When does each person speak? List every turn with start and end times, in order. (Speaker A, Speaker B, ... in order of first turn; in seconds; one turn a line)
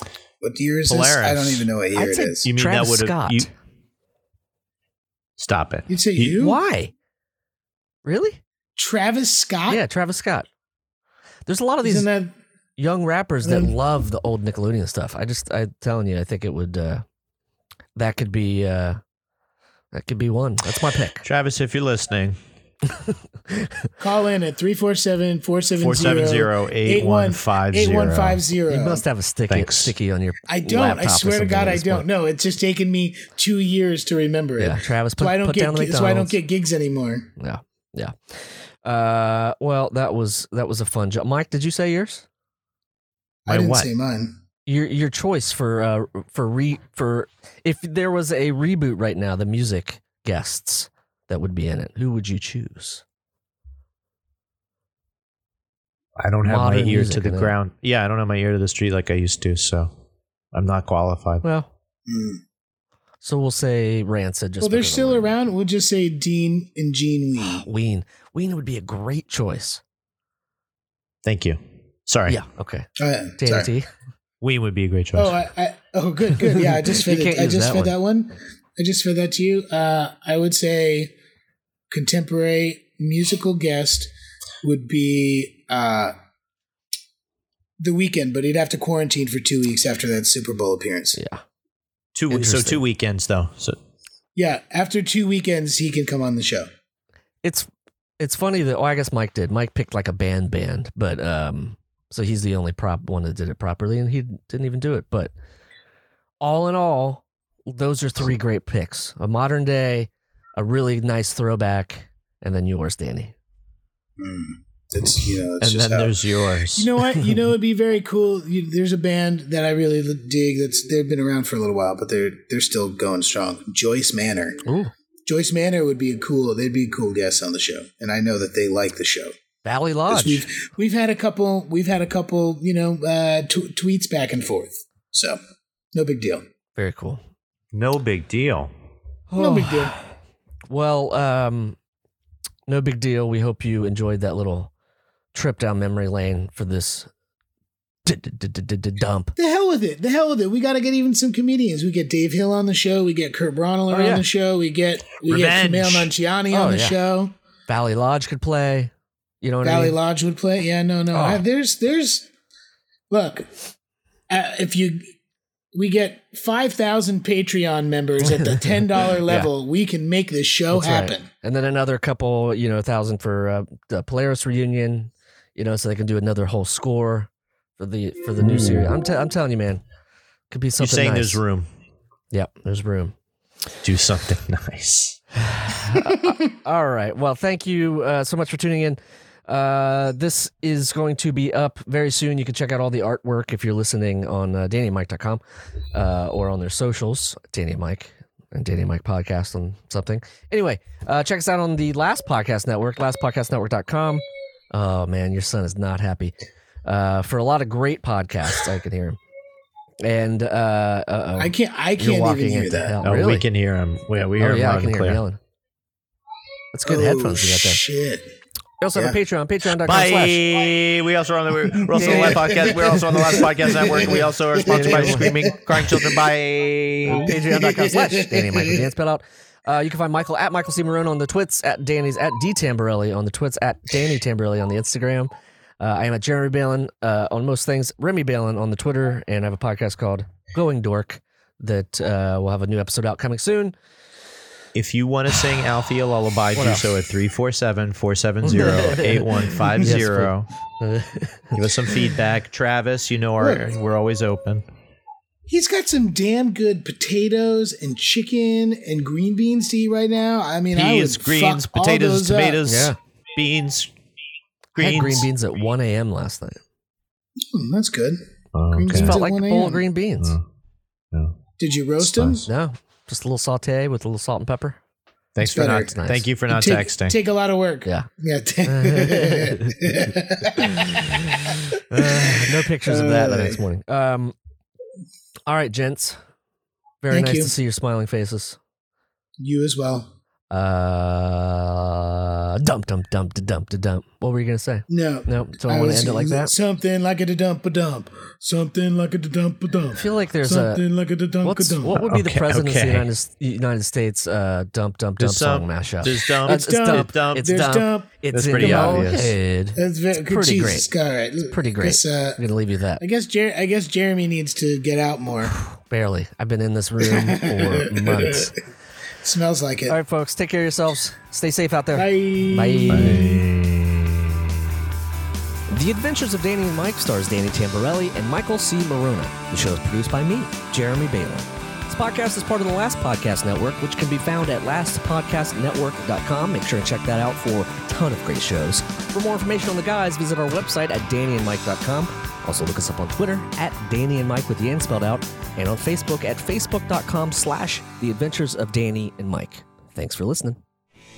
Speaker A: 0.4-2.5
Speaker B: 0.9-1.7
Speaker C: 1.9-3.5
Speaker B: 2.4-3.5
Speaker B: 5.4-6.3
Speaker A: 5.9-6.6
Speaker C: 6.3-6.9
Speaker C: 8.0-8.4
Speaker A: 8.8-9.8
Speaker C: 9.7-10.5
Speaker C: 11.5-12.1
Speaker A: 11.8-12.3
Speaker C: 12.8-17.0
Speaker A: 13.4-13.8
Speaker C: 17.9-19.0
Speaker C: 19.9-21.2
Speaker B: 21.2-22.4
Speaker C: 23.0-23.9
Speaker A: 24.0-29.0
Speaker B: 25.8-28.4
Speaker C: 28.7-32.1
Speaker B: 29.5-29.9
Speaker A: 30.5-37.3
Speaker C: 34.6-36.4
Speaker C: 37.4-42.2
Speaker A: 43.5-44.4
Speaker B: 43.5-43.9
Speaker C: 44.6-53.0
Speaker B: 56.2-59.9
Speaker C: 56.4-57.5
Speaker B: 60.5-61.4
Speaker C: 61.4-61.7
Speaker A: 62.1-62.4
Speaker C: 63.2-65.3
Speaker A: 64.6-67.7
Speaker C: 67.4-69.8
Speaker B: 71.2-72.4
Speaker C: 72.3-72.9
Speaker A: 73.0-73.7
Speaker C: 73.4-73.9
Speaker B: 74.4-75.4
Speaker A: 75.1-81.1
Speaker C: 76.4-77.9
Speaker A: 81.9-84.1
Speaker A: 84.6-86.1
Speaker A: 87.8-91.2
Speaker C: 91.2-91.4
Speaker B: 92.1-93.8
Speaker C: 92.3-92.8
Speaker A: 94.3-96.7
Speaker C: 97.4-97.7
Speaker C: 98.2-105.3
Speaker C: 106.4-113.3
Speaker A: 114.2-116.2
Speaker B: 115.6-116.9
Speaker A: 116.7-124.6
Speaker C: 124.6-124.9
Speaker A: 125.2-129.3
Speaker C: 129.6-130.5
Speaker A: 130.1-135.4
Speaker A: 135.9-136.4
Speaker C: 136.8-137.2
Speaker B: 137.7-138.7
Speaker C: 139.3-140.0
Speaker A: 139.3-139.9
Speaker C: 140.7-141.8
Speaker C: 142.7-144.7
Speaker C: 145.3-147.1
Speaker C: 148.1-149.3
Speaker A: 149.3-157.3
Speaker C: 153.9-154.2
Speaker B: 155.2-156.1
Speaker C: 156.5-157.0
Speaker C: 157.7-158.9
Speaker C: 159.4-159.9
Speaker A: 159.6-162.3
Speaker C: 161.1-161.4
Speaker A: 163.1-163.5
Speaker A: 164.3-165.1
Speaker A: 165.7-171.3
Speaker C: 168.3-168.6
Speaker C: 169.2-169.5
Speaker C: 170.7-179.8
Speaker C: 180.5-181.4
Speaker B: 180.8-181.7
Speaker C: 182.3-183.1
Speaker B: 183.8-185.2
Speaker C: 185.6-195.4
Speaker C: 195.9-206.3
Speaker C: 206.8-209.2
Speaker C: 210.0-213.4
Speaker A: 211.4-213.0
Speaker B: 213.0-215.2
Speaker C: 214.4-215.4
Speaker C: 216.7-217.8
Speaker A: 216.8-218.3
Speaker C: 218.8-220.4
Speaker B: 219.8-227.3
Speaker A: 221.9-226.1
Speaker C: 222.0-222.6
Speaker C: 224.6-225.3
Speaker C: 227.1-243.7
Speaker A: 227.6-228.8
Speaker B: 244.7-250.5
Speaker C: 246.6-246.9
Speaker C: 248.4-251.6
Speaker B: 251.5-254.6
Speaker A: 253.4-253.7
Speaker A: 255.5-262.6
Speaker B: 260.7-263.9
Speaker C: 262.6-263.0
Speaker B: 264.7-265.3
Speaker C: 264.8-266.6
Speaker A: 267.4-268.2
Speaker B: 268.5-269.1
Speaker A: 268.7-269.9
Speaker C: 268.9-270.4
Speaker A: 271.6-272.5
Speaker B: 272.0-272.4
Speaker C: 272.4-274.8
Speaker B: 275.4-277.1
Speaker A: 275.4-275.9
Speaker C: 275.8-276.2
Speaker A: 276.5-283.6
Speaker C: 278.6-279.9
Speaker C: 281.7-284.3
Speaker C: 285.5-286.2
Speaker C: 287.0-288.6
Speaker A: 287.1-287.5
Speaker A: 289.4-290.1
Speaker C: 290.5-296.5
Speaker A: 294.9-302.0
Speaker C: 299.9-300.8
Speaker C: 301.4-310.9
Speaker B: 301.9-303.1
Speaker B: 305.2-307.5
Speaker A: 306.5-312.4
Speaker B: 308.3-309.3
Speaker C: 311.4-313.0
Speaker A: 313.0-315.5
Speaker C: 315.5-318.5
Speaker A: 317.0-318.5
Speaker A: 319.2-320.0
Speaker C: 319.9-323.3
Speaker A: 321.9-323.4
Speaker B: 322.9-324.5
Speaker C: 325.7-350.6